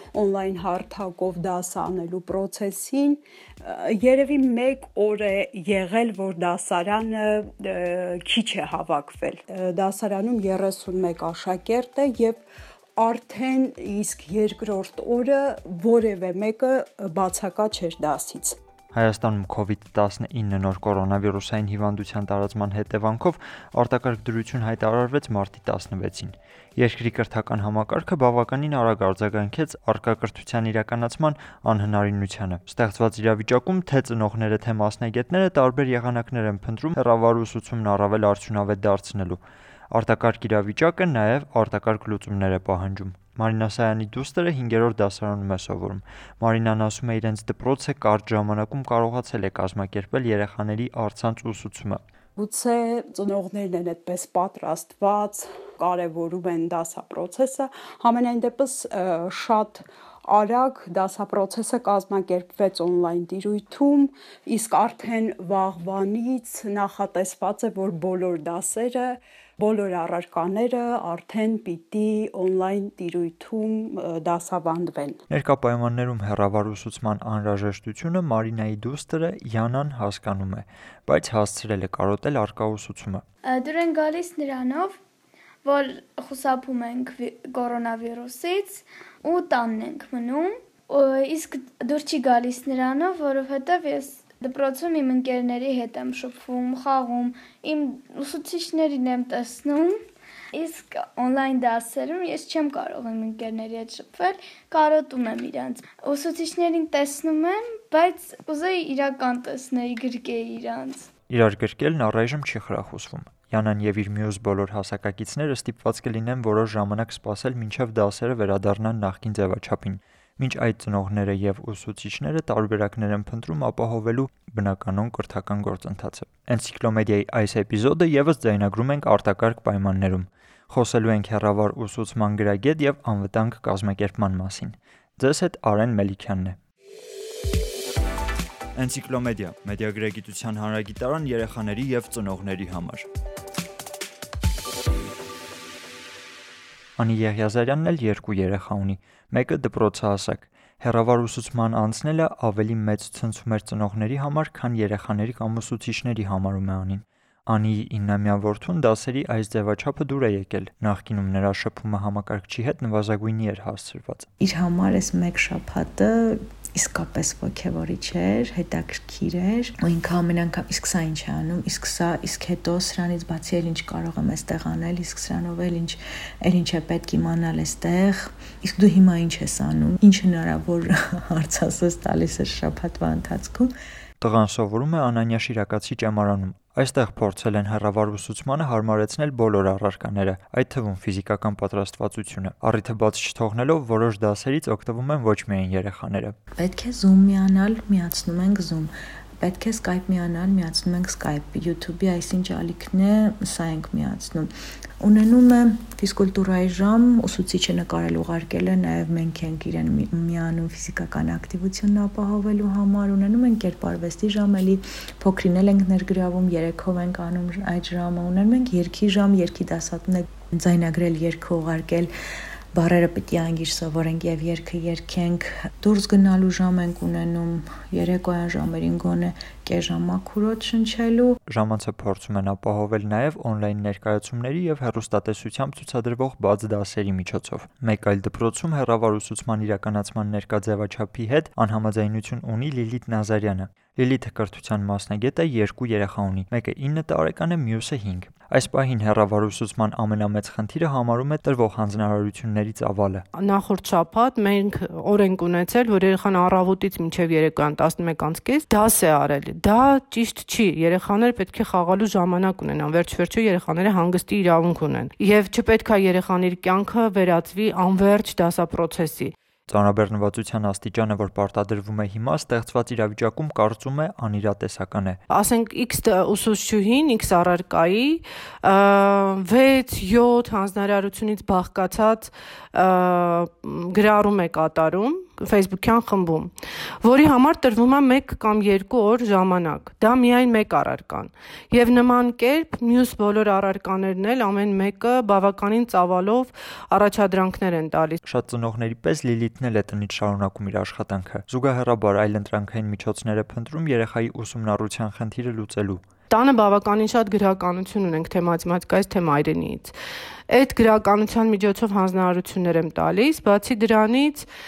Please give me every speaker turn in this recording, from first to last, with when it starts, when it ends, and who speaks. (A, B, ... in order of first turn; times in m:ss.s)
0:00.1-0:12.4 A
0:13.0-0:18.6 A
0:18.9-0:39.4 B
0:39.9-0:52.0 B
0:52.4-1:15.2 A
1:15.3-1:23.2 B
1:23.4-1:25.0 C
1:25.6-1:40.0 C
1:40.5-1:51.1 C
1:51.3-2:16.6 B
2:18.7-2:23.0 B
2:27.0-2:44.3 B
2:44.4-3:03.7 D
3:04.2-3:16.4 B
3:16.6-3:18.9 D
3:19.4-3:24.5 D
3:25.0-3:42.1 D
3:42.7-3:51.4 D
3:51.5-4:13.2 B
4:13.3-4:29.4 E
4:29.7-4:35.2 B
4:35.3-4:58.2 E
4:58.2-5:06.0 B
5:06.3-5:10.0 E
5:10.5-5:14.5 E